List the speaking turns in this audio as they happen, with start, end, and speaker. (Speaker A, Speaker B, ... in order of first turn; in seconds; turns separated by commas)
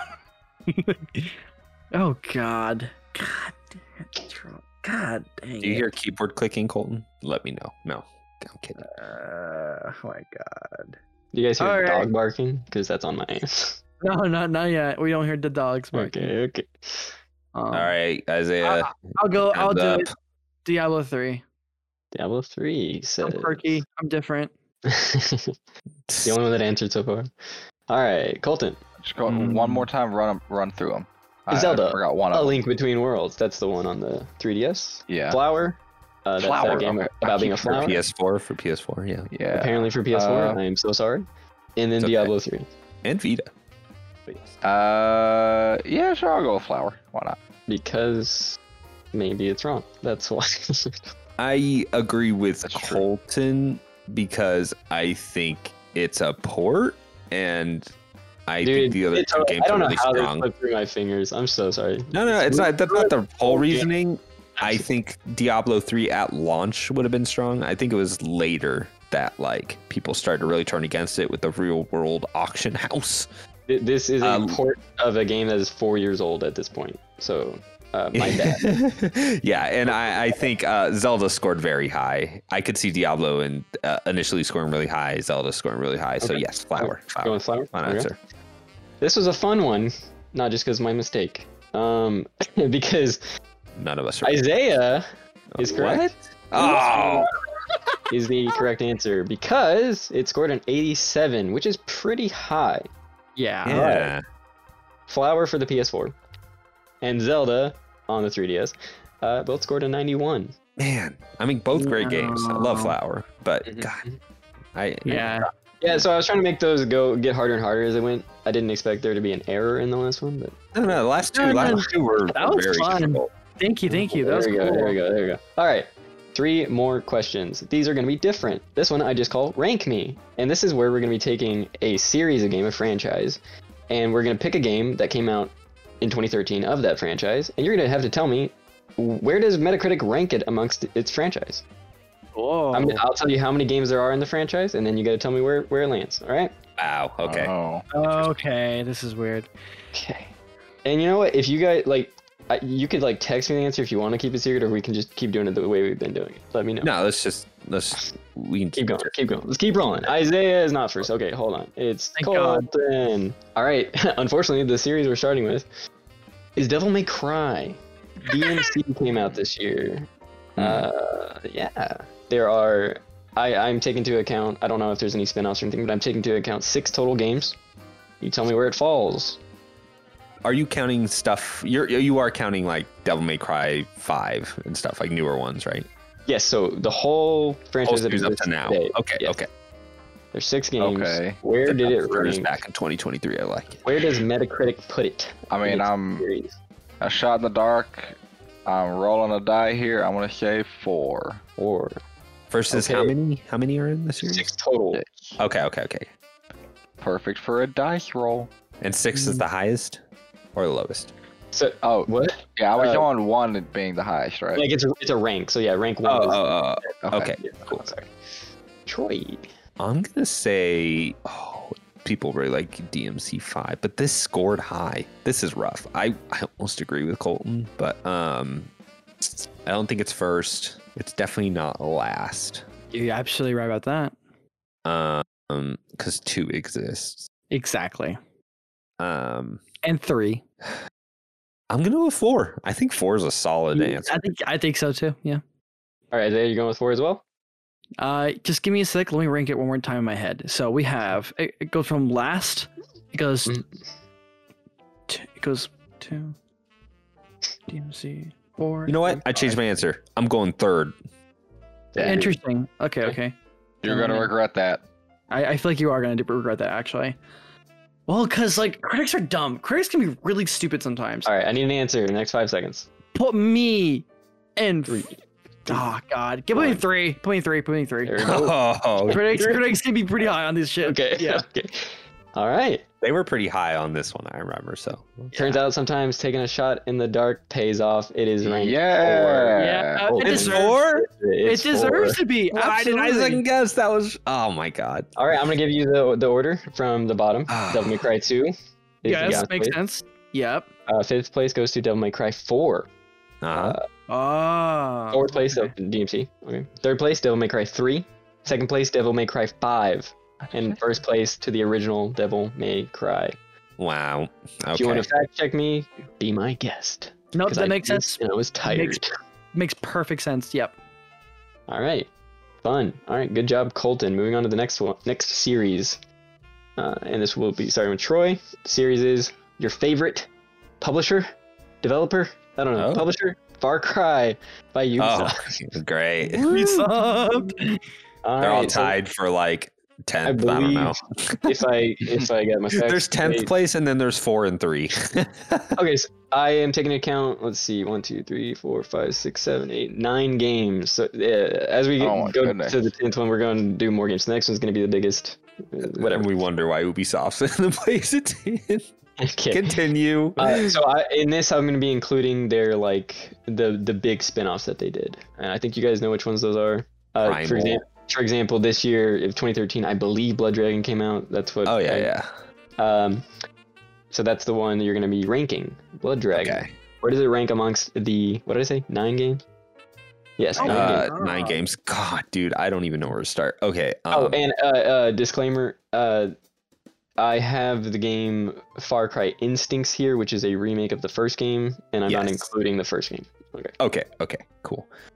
Speaker A: 0.7-1.4, Speaker A: 1.9-5.9, Speaker B: 5.6-8.8, Speaker A: 8.8-11.0, Speaker C: 11.3-13.8, Speaker A: 11.6-12.1, Speaker A: 14.0-16.3, Speaker C: 15.9-17.1, Speaker A: 17.5-17.9, Speaker B: 17.7-20.1, Speaker A: 18.6-20.1, Speaker A: 20.6-21.4, Speaker C: 22.1-23.7, Speaker A: 23.2-24.5, Speaker C: 24.9-25.5, Speaker B: 26.1-26.4, Speaker C: 26.2-27.3, Speaker C: 27.9-28.8, Speaker D: 29.0-32.6, Speaker A: 29.3-29.9, Speaker C: 31.5-38.0, Speaker D: 35.1-35.4, Speaker D: 36.4-38.0, Speaker B: 37.8-39.3, Speaker D: 39.3-40.6, Speaker C: 39.5-42.7, Speaker B: 42.0-42.3, Speaker B: 43.0-43.5, Speaker D: 44.6-47.4, Speaker C: 47.7-48.6, Speaker C: 49.1-51.0, Speaker B: 51.4-57.9, Speaker D: 52.6-53.1, Speaker B: 58.5-60.5, Speaker C: 58.6-63.9, Speaker B: 62.1-73.3, Speaker C: 64.6-64.8, Speaker C: 73.7-78.8, Speaker B: 74.2-74.6, Speaker B: 78.1-88.2, Speaker C: 79.9-80.4, Speaker C: 86.2-88.1, Speaker C: 89.0-93.2, Speaker B: 93.8-94.4, Speaker C: 94.2-95.1, Speaker B: 95.5-97.3, Speaker C: 95.6-97.1, Speaker A: 96.6-97.2, Speaker C: 98.1-102.9, Speaker A: 103.4-103.9, Speaker B: 103.6-104.2, Speaker C: 103.7-104.1, Speaker C: 105.1-106.1, Speaker C: 107.0-110.5, Speaker B: 110.8-114.0, Speaker A: 111.8-112.9, Speaker C: 113.6-114.2, Speaker B: 114.8-115.3, Speaker A: 115.1-115.5, Speaker C: 115.8-121.0, Speaker B: 120.7-123.3, Speaker A: 121.3-125.0, Speaker C: 123.9-141.6, Speaker A: 142.3-143.0, Speaker C: 142.7-146.5, Speaker B: 146.8-147.5, Speaker D: 147.2-147.8, Speaker A: 147.9-149.5, Speaker C: 149.9-150.3, Speaker C: 150.8-156.9, Speaker B: 156.8-159.1, Speaker C: 158.8-165.7, Speaker A: 162.2-162.7, Speaker C: 166.6-177.6, Speaker B: 170.6-170.9, Speaker C: 178.2-179.4, Speaker B: 180.4-185.9, Speaker C: 186.3-189.4, Speaker B: 187.8-189.5, Speaker C: 190.3-192.6, Speaker D: 190.8-191.4, Speaker B: 191.6-193.9, Speaker C: 193.8-196.6, Speaker D: 195.5-196.3, Speaker D: 197.0-201.4, Speaker C: 201.6-202.0, Speaker B: 202.5-204.5, Speaker C: 202.7-203.1, Speaker C: 204.2-205.0, Speaker D: 204.9-205.4, Speaker B: 205.4-206.1, Speaker D: 207.0-208.5, Speaker B: 208.8-210.0, Speaker A: 209.1-209.4, Speaker B: 210.5-211.1, Speaker C: 211.5-213.1, Speaker D: 211.8-214.7, Speaker C: 214.6-218.1, Speaker B: 216.1-217.8, Speaker D: 217.0-217.3, Speaker C: 218.9-219.5, Speaker B: 219.8-232.6, Speaker A: 232.9-234.1, Speaker B: 234.8-237.3, Speaker A: 237.5-238.2, Speaker B: 239.0-239.6, Speaker A: 239.8-240.4, Speaker B: 241.7-244.2, Speaker A: 243.8-245.4, Speaker C: 246.1-247.2, Speaker A: 248.0-253.6, Speaker A: 255.1-256.4, Speaker A: 257.7-259.6, Speaker B: 258.9-260.9, Speaker C: 261.9-262.4, Speaker A: 262.0-263.3, Speaker D: 263.8-264.8, Speaker A: 263.9-264.3, Speaker A: 265.3-267.2, Speaker A: 268.1-271.3, Speaker C: 271.2-272.9, Speaker A: 273.1-274.1, Speaker A: 274.6-275.1, Speaker C: 274.9-275.9, Speaker A: 275.7-278.3, Speaker C: 276.5-276.8, Speaker C: 278.1-279.6, Speaker B: 278.2-279.2, Speaker A: 279.1-281.4, Speaker C: 280.8-282.8, Speaker B: 283.0-285.3, Speaker C: 285.3-292.2, Speaker D: 288.4-290.1, Speaker A: 289.6-290.8, Speaker B: 290.2-291.1, Speaker A: 291.4-293.4, Speaker B: 292.5-295.1, Speaker C: 295.1-299.8, Speaker B: 297.5-298.0, Speaker A: 299.1-300.7, Speaker C: 300.9-302.9, Speaker B: 303.4-303.8, Speaker C: 303.5-303.9, Speaker A: 304.1-305.7, Speaker C: 305.1-313.4, Speaker D: 310.4-310.8, Speaker B: 313.8-315.1, Speaker C: 314.7-319.1, Speaker A: 317.3-319.0, Speaker A: 319.5-320.8, Speaker C: 321.7-322.1, Speaker C: 322.6-326.0, Speaker C: 326.8-330.3, Speaker C: 330.8-331.3, Speaker C: 331.8-335.6, Speaker B: 332.8-333.1, Speaker B: 335.0-336.9, Speaker A: 336.2-337.8, Speaker C: 338.2-339.0, Speaker B: 338.4-341.5, Speaker C: 340.2-343.5, Speaker B: 342.7-345.8, Speaker C: 345.8-356.3, Speaker D: 352.0-352.8, Speaker B: 355.8-358.9, Speaker C: 359.2-359.8, Speaker B: 359.5-360.8, Speaker C: 360.4-372.1, Speaker B: 367.2-367.8, Speaker B: 371.6-372.3, Speaker C: 372.8-373.2, Speaker C: 374.1-379.4, Speaker B: 376.4-376.7, Speaker C: 380.4-381.1, Speaker A: 380.6-381.6, Speaker B: 380.6-384.4, Speaker C: 384.1-386.3, Speaker C: 387.2-393.7, Speaker B: 392.1-392.4, Speaker B: 393.8-394.9